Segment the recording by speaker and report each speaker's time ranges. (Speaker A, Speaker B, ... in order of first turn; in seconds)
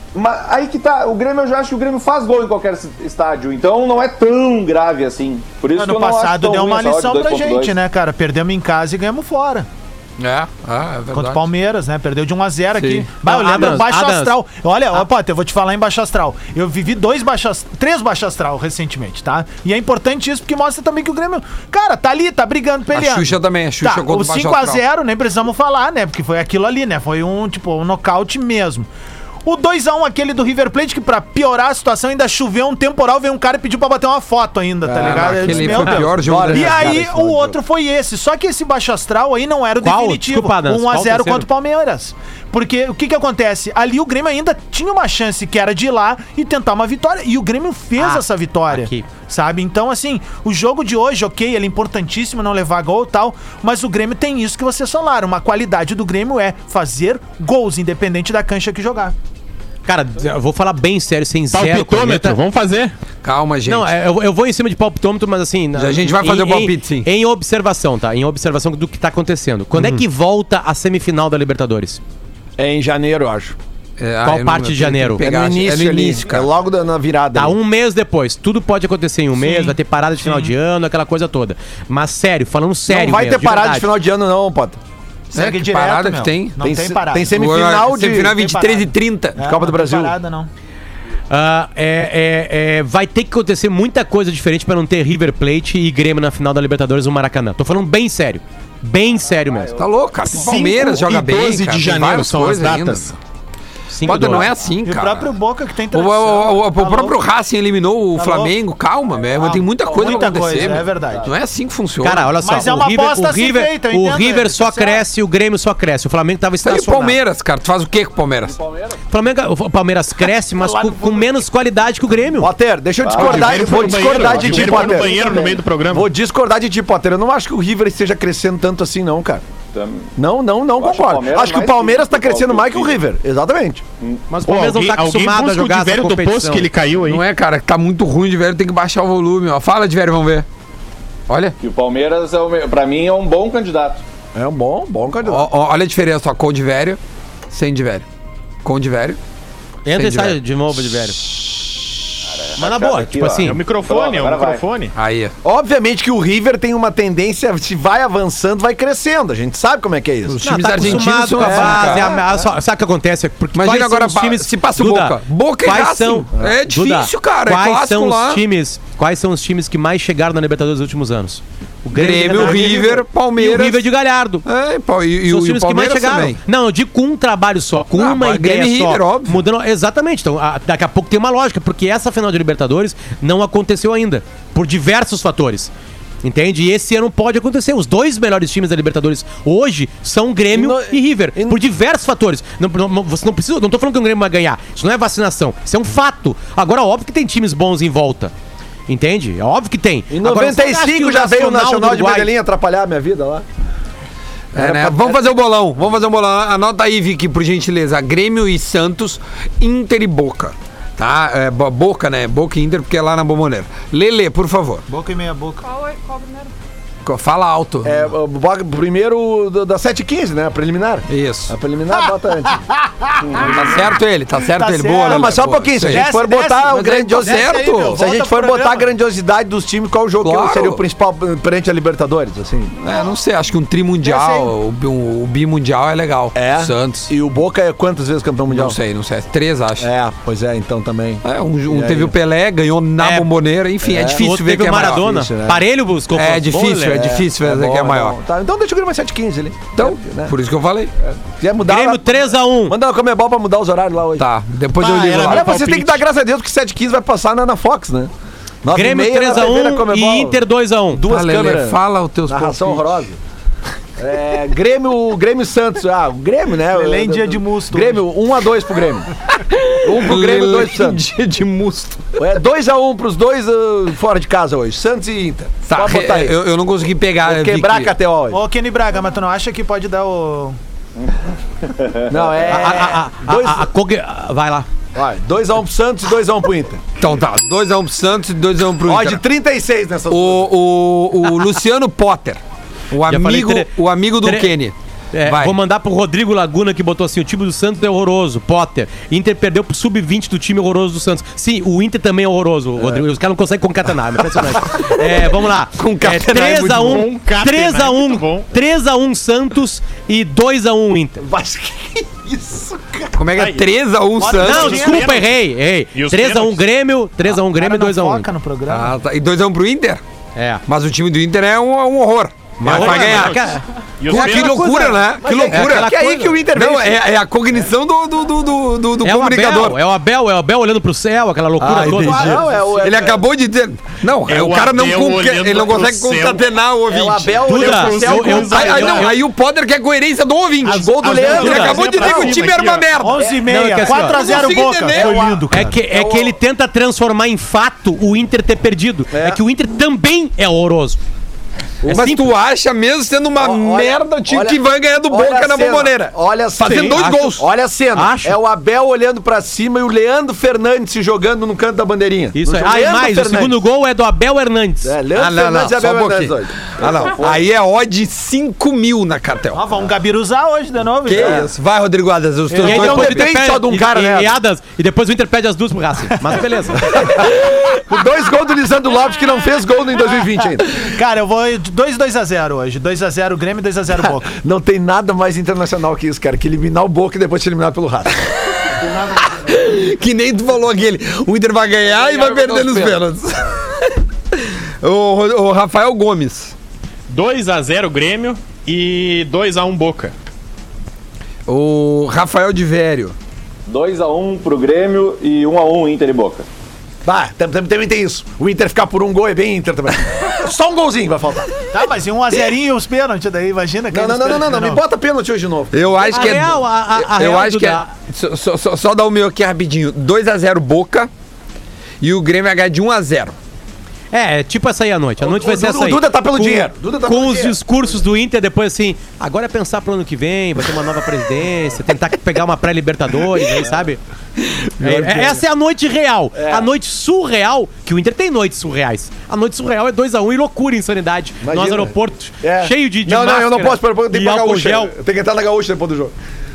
Speaker A: 0.1-7.8, 99.2-100.3, 109.8-111.3, 118.4-119.0, 123.0-125.6, 129.7-130.1, 130.8-133.0, 141.6-144.0, 152.3-154.7, 281.7-282.0, 403.7-406.5
Speaker B: 5.8-9.7, 11.1-28.9, 29.4-59.1, 79.4-80.5, 85.3-87.3, 88.2-90.5, 104.8-107.2, 108.2-108.5, 109.4-111.3, 112.4-115.0, 120.6-121.4, 214.9-216.4, 224.6-225.4, 225.9-228.9, 234.0-234.5, 266.7-268.1, 278.3-280.6, 314.2-315.1, 317.2-318.9, 343.0-345.8, 369.5-371.5, 372.5-372.9, 380.7-384.3, 411.7-414.8
Speaker C: 10.2-11.4, 12.8-13.1, 22.9-24.8, 35.0-37.0, 63.2-63.9, 65.8-67.1, 69.8-70.0, 74.0-76.5, 85.3-86.6, 87.3-89.4, 99.8-103.1, 104.0-105.3, 105.9-112.3, 116.6-118.6, 137.0-140.5, 141.3-141.6, 145.3-147.0, 147.5-148.1, 148.6-149.2, 149.9-150.4, 154.9-155.3, 160.3-162.1, 163.6-168.4, 171.9-173.9, 174.4-176.4, 177.9-179.4, 204.5-214.9, 217.0-218.1, 221.1-221.6, 223.3-226.1, 226.7-228.0, 230.2-230.8, 232.8-237.1, 238.5-239.9, 241.2-245.1, 246.1-248.2, 249.8-250.9, 254.2-255.5, 261.0-263.0, 269.4-272.1, 275.6-277.9, 287.0-289.2, 290.1-292.4, 292.9-295.5, 305.8-307.1, 313.1-315.0, 318.7-320.0, 320.7-323.5, 324.1-325.9, 326.5-329.8, 331.6-337.4, 338.5-343.2, 343.8-345.4, 351.9-357.5, 365.1-369.6, 371.1-373.3, 389.2-396.6, 401.5-403.1, 415.7-421.1, 422.0-423.4
Speaker D: 13.2-14.3, 39.8-41.5, 48.0-49.1, 59.9-62.4, 63.7-72.0, 74.2-75.2, 77.3-83.9, 91.3-99.7, 103.9-104.5, 112.0-117.2, 119.1-122.5, 134.3-136.7, 149.8-151.3, 152.6-153.6, 160.4-174.4, 175.3-185.7, 186.2-198.3, 198.9-202.3, 243.0-243.3, 244.0-247.1, 251.6-252.8, 258.7-261.1, 282.5-284.7, 293.1-294.5, 295.1-311.2, 314.4-318.3, 320.4-320.6, 322.6-326.4, 329.0-332.4, 337.4-339.2, 341.4-341.7, 343.5-344.2, 345.5-351.0, 351.9-352.3, 356.7-357.0, 357.9-358.4, 362.4-364.9, 372.6-377.0, 416.1-417.9, 424.1-434.0, 434.8-444.9
Speaker E: 34.8-37.6, 72.6-73.6, 75.2-77.6, 82.9-84.8, 86.6-88.4, 89.4-90.2, 122.4-129.4, 130.2-133.8, 144.3-145.5, 155.4-162.2, 172.3-173.0, 190.5-191.6, 200.1-203.4, 204.5-205.3, 217.8-222.7, 223.2-223.9, 225.0-232.8, 236.3-238.8, 239.8-242.2, 243.8-245.7, 246.9-250.3, 251.0-254.3, 255.0-258.1, 258.6-260.4, 260.9-263.2, 264.0-269.1, 269.8-271.0, 272.2-276.4, 277.2-278.4, 282.1-283.7, 284.9-286.8, 288.8-290.5, 311.2-313.2, 325.2-327.0, 331.6-333.2, 336.9-339.0, 340.6-342.4, 343.2-343.6, 345.9-346.4, 349.1-349.4, 351.8-352.1, 353.4-363.6, 364.8-366.7, 371.1-371.5, 372.6-374.4, 376.8-380.9, 384.3-388.3, 391.9-393.0, 407.1-411.5, 413.9-416.4, 425.2-427.6, 434.8-435.4, 436.4-436.7, 441.4-446.1
Speaker F: 61.5-62.9, 100.4-103.2, 123.2-126.1, 134.4-137.2, 153.4-154.9, 254.8-256.0, 306.8-308.5, 313.4-313.7, 314.4-315.3, 315.9-316.6, 322.6-324.8, 334.3-336.4, 337.5-339.1, 340.6-342.9, 397.1-400.1